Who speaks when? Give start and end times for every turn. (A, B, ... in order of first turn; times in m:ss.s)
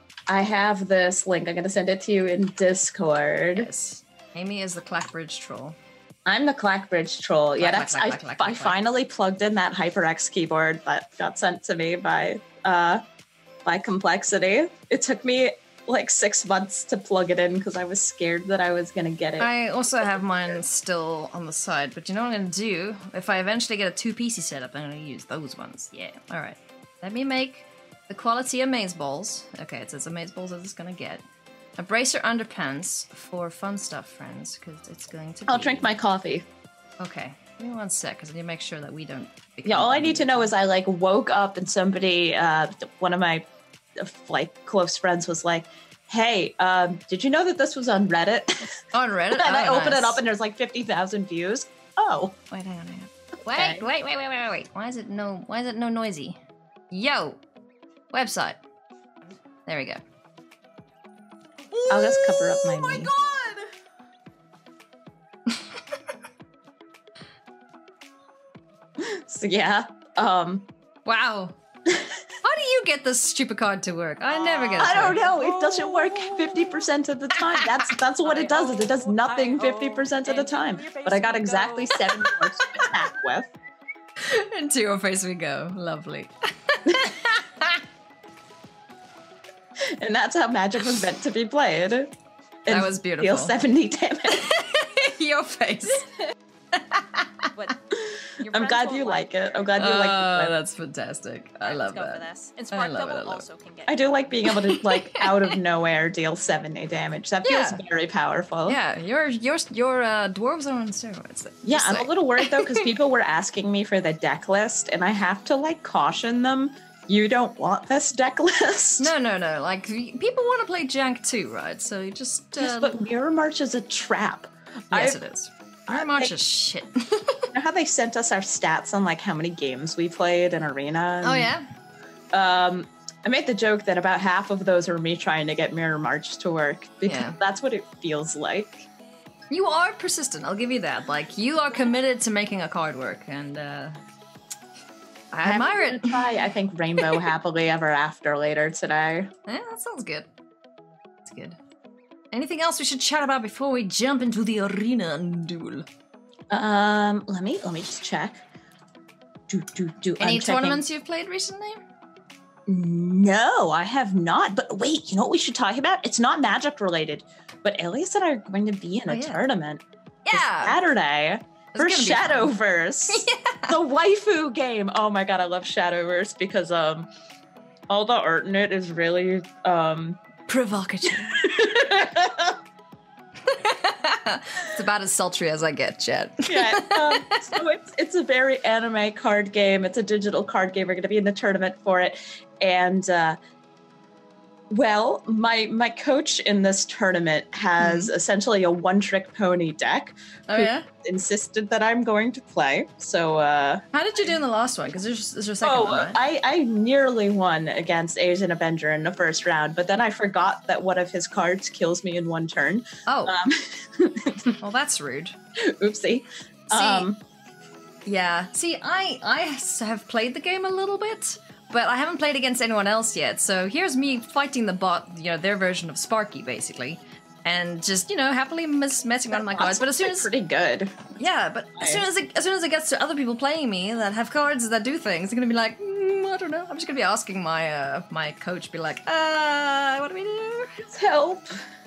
0:00.3-0:03.7 A
0:03.6-0:05.8 B
0:06.2-0:13.0 A
0:07.6-0:08.8 B
0:13.6-0:19.5 A
0:19.4-0:31.2 B
0:31.8-0:35.9 B
0:35.5-0:36.4 A
0:37.0-0:40.5 B
0:39.6-0:43.4 A
0:44.0-0:48.7 A
0:48.9-0:50.2 B
0:49.3-0:52.4 A
0:52.5-0:56.4 B
0:53.5-0:53.9 A
0:56.9-0:57.4 B
0:58.1-0:58.6 B
0:59.7-1:00.0 B
1:01.8-1:03.6 B
1:01.9-1:03.1 A
1:09.0-1:10.7 A
1:11.1-1:11.6 B
1:12.4-1:15.3 B
1:14.3-1:15.7 C
1:14.7-1:23.5 A
1:16.2-1:16.6 B
1:17.4-1:17.9 B
1:18.2-1:22.4 C
1:24.2-1:27.8 B
1:30.0-1:32.1 A
1:32.6-1:34.4 A
1:32.7-1:33.6 B
1:34.3-1:36.1 B
1:36.8-1:37.5 B
1:37.6-1:37.8 C
1:38.1-1:40.5 A
1:38.4-1:40.0 C
1:39.8-1:43.5 B
1:41.6-1:44.4 C
1:43.9-1:48.8 A
1:44.5-1:45.6 B
1:47.4-1:47.8 B
1:48.7-1:52.8 B
1:51.6-1:59.1 A
1:59.0-2:03.0 B
2:02.6-2:05.2 A
2:04.9-2:07.5 B
2:05.9-2:06.4 A
2:07.5-2:11.5 A
2:11.2-2:11.6 B
2:12.3-2:18.9 A
2:17.0-2:17.4 B
2:19.5-2:24.0 B
2:25.3-2:26.4 B
2:25.4-2:29.3 A
2:27.0-2:27.3 B
2:29.5-2:30.3 B
2:31.2-2:31.6 B
2:32.3-2:35.8 B
2:36.5-2:38.4 A
2:39.5-2:40.8 A
2:40.2-2:41.8 B
2:42.7-2:57.1 A
2:49.1-2:49.4 B
2:50.2-2:50.8 B
2:51.7-2:52.6 B
2:53.1-2:53.8 B
2:57.9-3:00.2 A
3:00.5-3:02.0 B
3:01.1-3:02.5 A
3:03.5-3:07.5 B
3:06.5-3:13.4 A
3:14.7-3:23.8 A
3:17.8-3:18.1 B
3:20.5-3:20.9 B
3:23.9-3:26.2 B
3:25.6-3:34.5 A
3:33.1-3:33.4 B
3:34.6-3:35.4 B
3:35.6-3:37.2 A
3:36.7-3:37.1 B
3:38.0-3:50.3 B
3:49.3-3:51.2 A
3:51.2-4:00.8 B
3:51.8-3:52.1 A
4:00.8-4:01.6 A